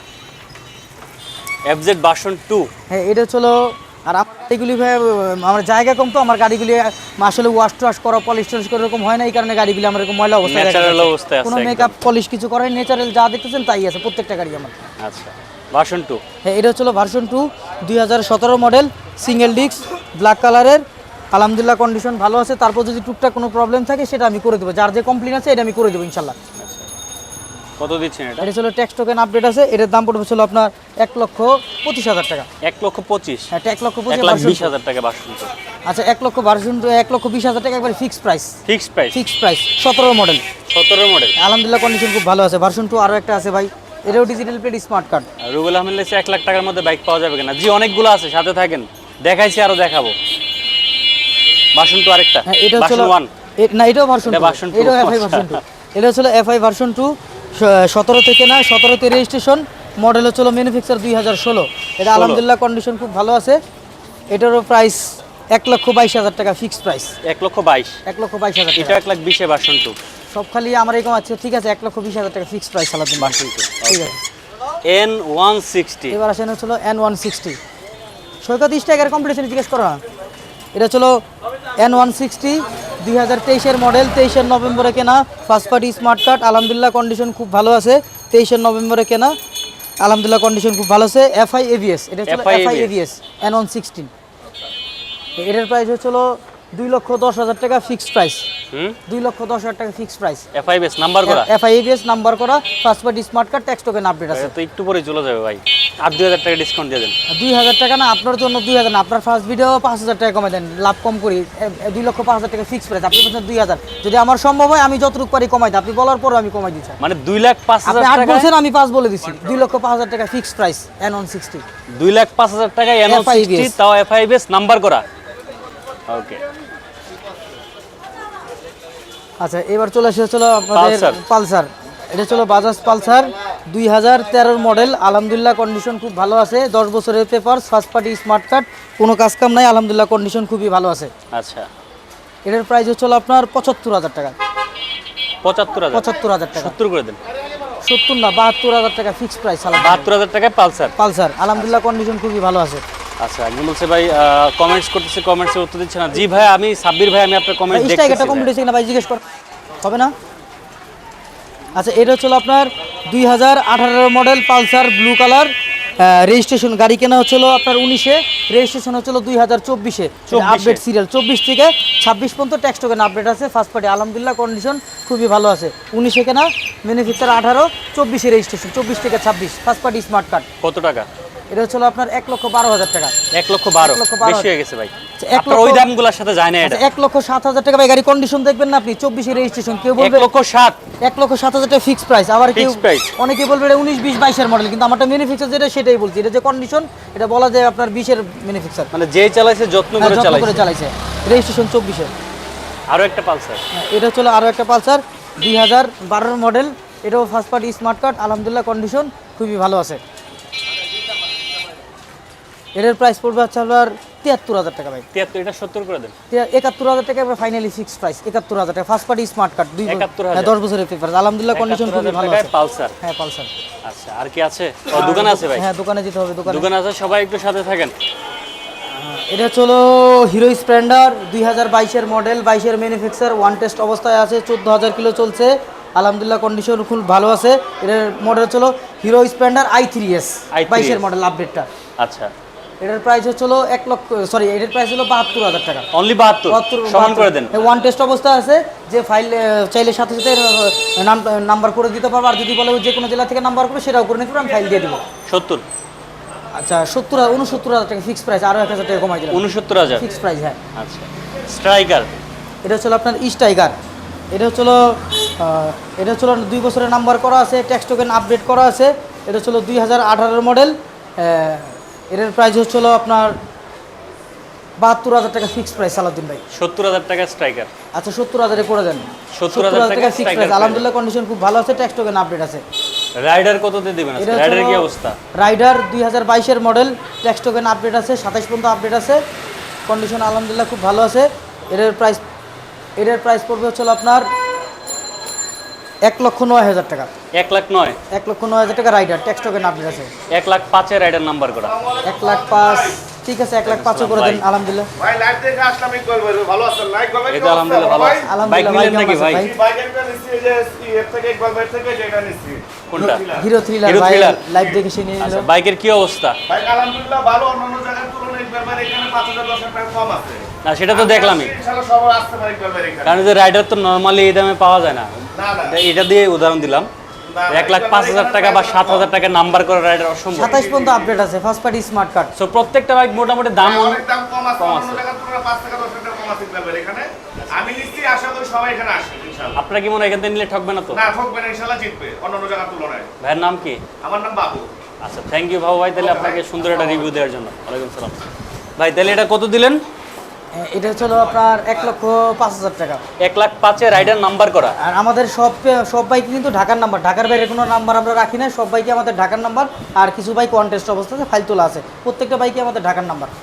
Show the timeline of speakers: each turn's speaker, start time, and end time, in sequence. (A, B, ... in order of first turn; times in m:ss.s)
0:01.6-0:02.7 A
0:02.9-0:14.8 B
0:10.4-0:12.0 A
0:15.0-0:16.2 A
0:16.4-0:26.4 B
0:26.6-0:26.9 A
0:27.8-0:28.5 A
0:28.4-0:32.5 B
0:32.6-0:33.5 A
0:33.5-0:34.7 B
0:34.1-0:35.5 A
0:35.9-0:38.6 B
0:38.7-0:39.2 A
0:39.1-0:40.4 B
0:40.7-0:41.4 A
0:41.4-0:45.3 B
0:45.4-0:50.2 A
0:51.8-0:53.3 A
0:52.5-1:03.6 B
0:54.2-0:55.6 A
1:02.1-1:02.4 A
1:04.3-1:07.1 B
1:07.2-1:08.0 A
1:08.1-1:09.0 B
1:08.8-1:10.0 A
1:10.3-1:14.2 B
1:13.2-1:14.2 A
1:14.8-1:16.2 A
1:16.1-1:17.6 B
1:18.4-1:20.0 B
1:20.8-1:21.2 B
1:21.8-1:29.4 B
1:30.0-1:34.1 B
1:32.3-1:32.9 A
1:35.4-1:38.5 B
1:38.7-1:39.0 A
1:39.1-1:40.5 B
1:40.5-1:41.5 A
1:41.2-1:44.5 B
1:44.3-1:47.2 A
1:47.3-1:57.0 B
1:57.0-1:58.5 A
1:57.8-2:01.6 B
2:01.9-2:05.0 A
2:03.1-2:03.8 B
2:06.1-2:06.4 A
2:09.4-2:21.1 B
2:10.7-2:11.2 A
2:21.3-2:21.7 A
2:22.5-2:24.4 B
2:25.4-2:27.2 A
2:25.9-2:26.8 B
2:27.8-2:30.1 B
2:29.7-2:31.0 A
2:31.0-2:32.8 B
2:31.6-2:31.8 A
2:33.2-2:38.5 A
2:37.7-2:39.2 B
2:39.8-2:40.1 B
2:41.8-3:00.5 B
2:50.3-2:50.8 A
3:00.6-3:01.1 A
3:01.5-3:03.2 B
3:03.3-3:06.8 A
3:03.8-3:04.5 B
3:05.2-3:05.9 B
3:06.6-3:10.3 B
3:10.0-3:10.8 A
3:11.0-3:18.9 B
3:12.5-3:13.1 A
3:18.9-3:20.7 A
3:20.0-3:22.1 B
3:22.9-3:23.6 A
3:23.7-3:30.0 B
3:32.8-3:35.1 B
3:35.1-3:36.2 A
3:36.3-3:43.5 B
3:39.9-3:40.6 A
3:41.5-3:43.0 A
3:43.8-3:45.7 A
3:44.9-3:46.7 B
3:46.5-3:48.0 A
3:48.9-4:01.7 B
4:00.5-4:01.0 A
4:02.0-4:02.3 A
4:02.8-4:05.9 B
4:05.9-4:07.7 A
4:06.5-4:15.0 B
4:15.3-4:15.6 A
4:16.6-4:19.4 B
4:19.3-4:20.1 A
4:20.0-4:20.6 B
4:20.8-4:22.1 A
4:22.6-4:23.8 B
4:24.3-4:33.4 B
4:34.8-4:36.4 B
4:36.5-4:37.7 A
4:37.9-4:42.6 B
4:39.3-4:40.9 A
4:43.2-4:45.2 A
4:44.2-4:49.2 B
4:49.9-4:52.2 B
4:53.0-4:54.3 B
4:56.0-4:57.1 B
4:57.3-4:58.0 A
4:58.1-5:00.1 B
5:00.3-5:01.8 A
5:01.7-5:03.0 C
5:02.0-5:04.9 B
5:03.6-5:04.4 A
5:05.0-5:08.3 C
5:07.3-5:09.5 A
5:08.3-5:09.5 B
5:09.3-5:13.5 C
5:12.9-5:13.2 A
5:13.0-5:15.5 B
5:13.8-5:14.5 A
5:15.2-5:16.4 A
5:16.5-5:23.2 C
5:20.6-5:21.5 A
5:23.0-5:26.9 A
5:25.4-5:25.8 C
5:27.3-5:29.1 C
5:27.5-5:30.6 A
5:30.3-5:32.3 B
5:30.4-5:31.2 C
5:32.4-5:34.0 A
5:33.6-5:39.6 C
5:34.6-5:35.0 A
5:39.6-5:41.0 A
5:40.9-5:43.1 C
5:43.2-5:43.8 A
5:44.0-5:44.7 C
5:45.0-5:48.2 A
5:46.0-5:47.1 C
5:48.8-5:49.8 A
5:50.5-5:53.0 B
5:53.2-5:54.8 A
5:54.8-6:03.3 B